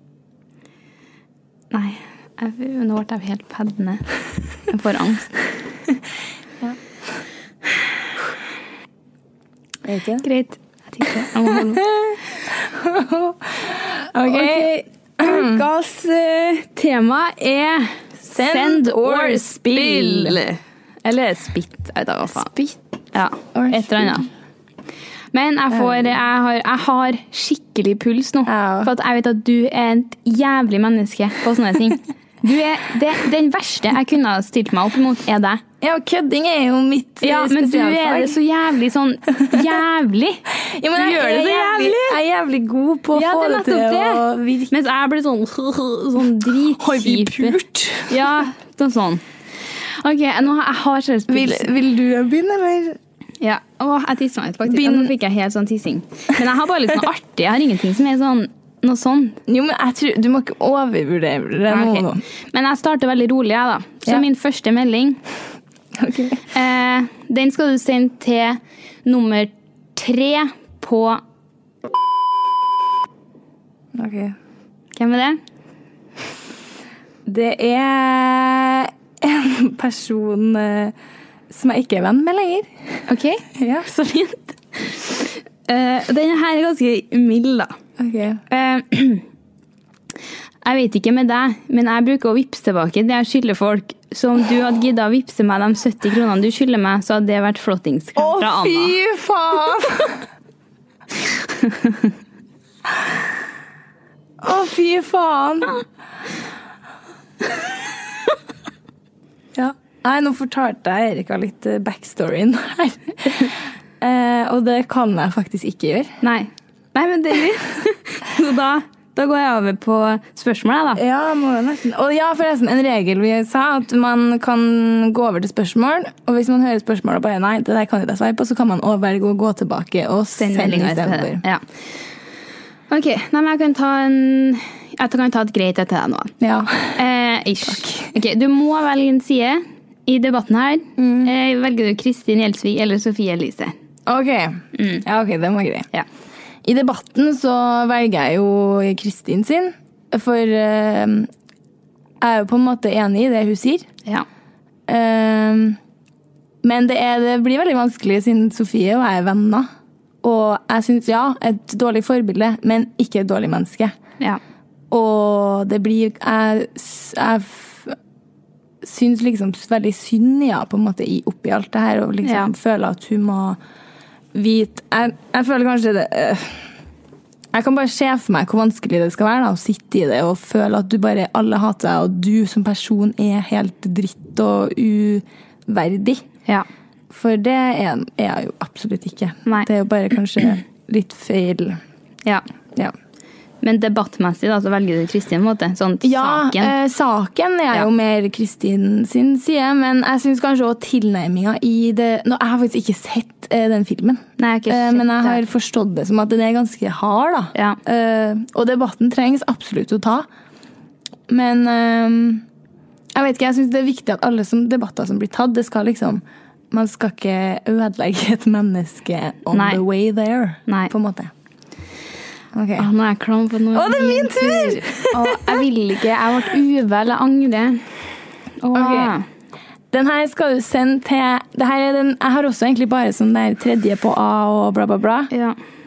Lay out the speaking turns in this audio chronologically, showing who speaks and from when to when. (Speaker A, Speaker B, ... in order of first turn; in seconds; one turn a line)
Speaker A: 1.7-4.1
Speaker A: 4.7-5.4
Speaker B: 9.8-10.2
Speaker A: 10.2-11.9
Speaker B: 12.0-15.7
Speaker A: 14.2-22.5
Speaker B: 18.2-20.4
Speaker B: 22.3-22.8
Speaker A: 23.1-24.3
Speaker B: 23.4-24.2
Speaker A: 25.3-35.6
Speaker B: 25.7-26.2
Speaker B: 28.5-28.9
Speaker B: 35.8-38.4
Speaker A: 37.2-40.4
Speaker B: 40.6-44.7
Speaker A: 41.0-42.2
Speaker A: 43.1-47.6
Speaker B: 46.5-48.3
Speaker A: 48.1-49.2
Speaker A: 50.0-51.7
Speaker B: 51.3-53.0
Speaker A: 53.4-59.4
Speaker B: 54.7-55.1
Speaker B: 59.5-62.2
Speaker A: 61.7-65.2
Speaker B: 66.0-66.4
Speaker A: 66.5-71.2
Speaker B: 74.0-74.3
Speaker A: 75.0-75.4
Speaker B: 77.2-81.0
Speaker B: 81.5-82.7
Speaker A: 83.1-87.7
Speaker B: 83.5-83.9
Speaker B: 88.0-88.4
Speaker A: 88.5-89.2
Speaker A: 90.6-99.0
Speaker B: 98.2-100.2
Speaker A: 101.6-102.0
Speaker B: 104.4-105.8
Speaker B: 109.5-116.2
Speaker A: 116.2-121.0
Speaker B: 121.0-131.4
Speaker A: 130.4-131.6
Speaker A: 132.9-136.3
Speaker B: 136.4-137.0
Speaker A: 137.0-143.7
Speaker B: 137.6-138.1
Speaker B: 141.0-141.3
Speaker B: 144.1-145.9
Speaker A: 144.8-145.0
Speaker B: 146.6-151.3
Speaker B: 152.2-153.9
Speaker B: 154.9-155.8
Speaker B: 156.6-159.7
Speaker B: 160.2-163.9
Speaker B: 164.9-168.0
Speaker B: 168.8-173.6
Speaker A: 172.2-172.5
Speaker B: 174.3-176.7
Speaker B: 177.5-186.2
Speaker B: 187.1-191.8
Speaker A: 193.6-196.7
Speaker B: 196.0-210.3
Speaker A: 204.4-205.4
Speaker B: 211.3-212.4
Speaker B: 213.1-221.3
Speaker A: 219.5-219.8
Speaker A: 220.7-220.9
Speaker B: 222.5-222.9
Speaker A: 222.8-227.8
Speaker B: 223.7-225.6
Speaker A: 228.6-229.2
Speaker B: 228.7-229.2
Speaker B: 229.9-235.3
Speaker A: 235.3-235.6